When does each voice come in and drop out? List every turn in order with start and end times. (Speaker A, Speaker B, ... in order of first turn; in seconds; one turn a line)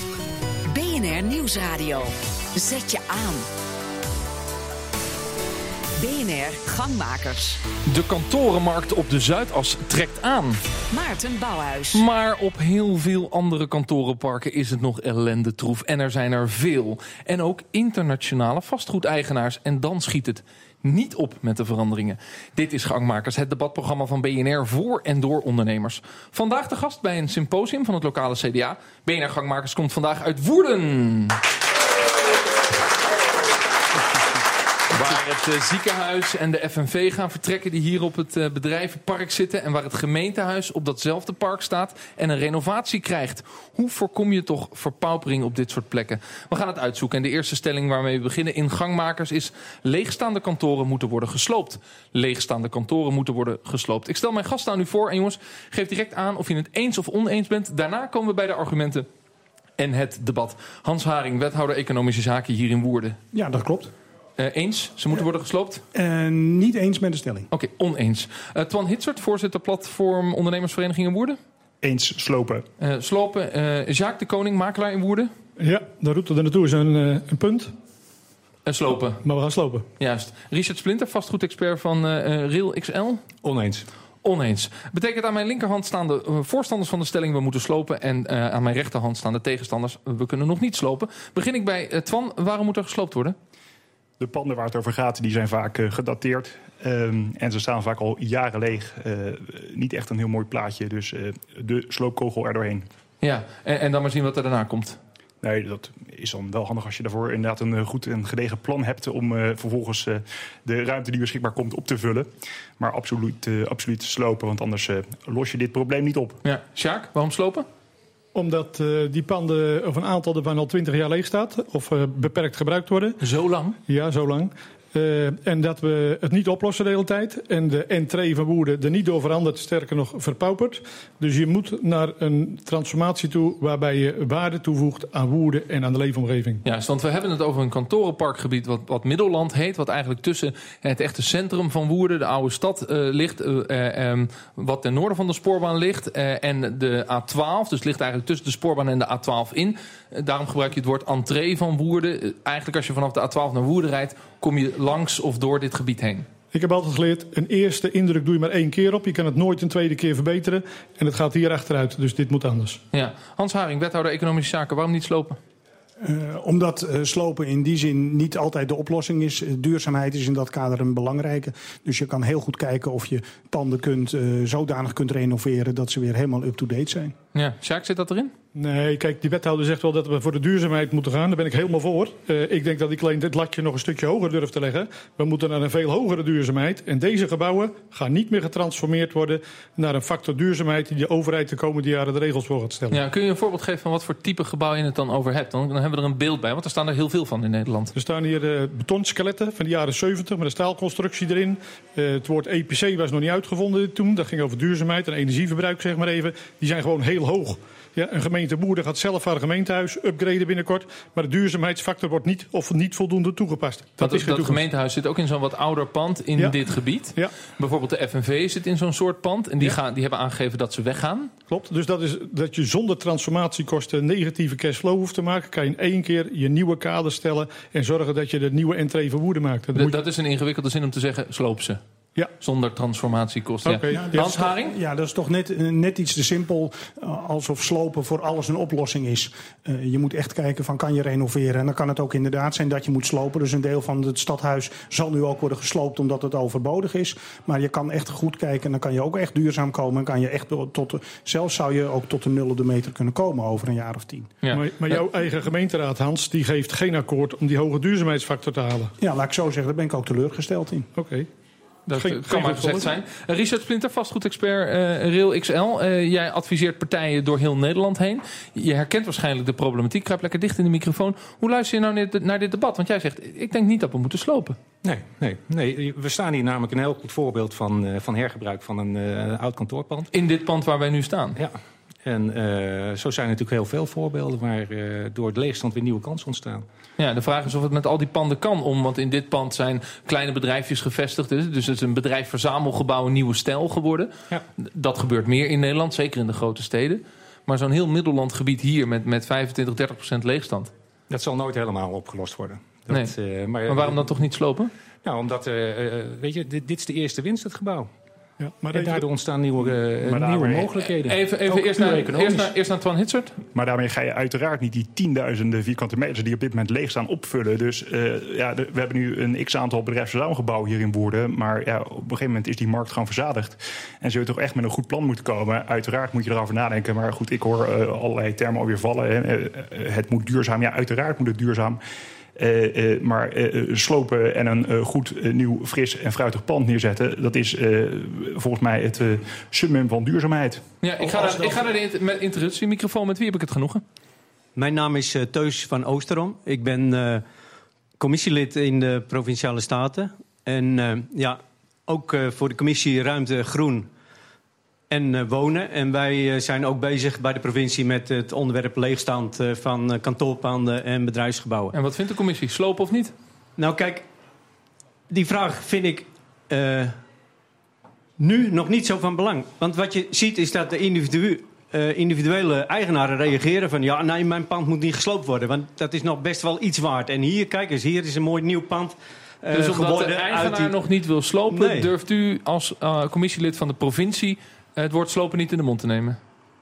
Speaker A: 0.7-3.5
Speaker A: 6.0-7.6
Speaker B: 7.8-10.6
Speaker A: 10.9-12.0
Speaker B: 11.9-31.4
Speaker B: 34.9-59.1
Speaker B: 59.8-63.2
Speaker C: 63.3-63.9
Speaker B: 64.4-65.8
Speaker C: 65.9-67.5
Speaker B: 67.5-71.4
Speaker D: 71.8-72.7
Speaker B: 72.8-75.3
Speaker E: 75.6-77.7
Speaker B: 78.7-79.2
Speaker E: 79.2-79.8
Speaker B: 80.0-83.2
Speaker F: 83.4-83.8
Speaker B: 84.2-93.4
Speaker D: 94.2-102.9
Speaker B: 103.2-105.0
Speaker D: 105.4-112.3
Speaker D: 112.8-116.4
Speaker B: 116.4-117.7
Speaker E: 118.3-123.2
Speaker B: 123.2-123.8
Speaker E: 123.9-136.6
Speaker B: 136.6-156.2
Speaker E: 156.5-162.8
Speaker B: 162.9-165.4
Speaker C: 166.0-177.1
Speaker B: 177.3-178.3
Speaker E: 178.5-193.0
Speaker B: 192.9-197.9
Speaker E: 197.9-214.6
Speaker B: 214.0-221.3
Speaker E: 221.5-230.0
Speaker B: 229.7-231.8
Speaker B: 232.4-234.7
Speaker E: 233.6-234.0
Speaker C: 233.9-254.3
Speaker B: 254.4-255.0
Speaker E: 254.5-258.9
Speaker C: 259.0-260.9
Speaker E: 260.9-261.3
Speaker B: 261.9-274.6
Speaker E: 261.9-262.9
Speaker F: 274.8-280.1
Speaker B: 280.1-281.4
Speaker F: 281.4-286.6
Speaker B: 287.0-300.7
Speaker F: 301.1-304.3
Speaker B: 303.7-304.7
Speaker F: 305.0-307.9
Speaker E: 308.4-309.0
Speaker F: 308.7-312.5
Speaker D: 309.6-310.7
Speaker B: 311.1-313.4
Speaker D: 313.5-331.8
Speaker D: 332.4-340.6
Speaker B: 340.8-343.8
Speaker G: 344.6-347.2
Speaker G: 348.0-353.9
Speaker G: 354.9-361.7
Speaker B: 361.7-363.1
Speaker G: 363.6-364.1
Speaker G: 365.1-367.0
Speaker G: 368.2-380.8
Speaker B: 379.5-386.2
Speaker G: 381.5-381.9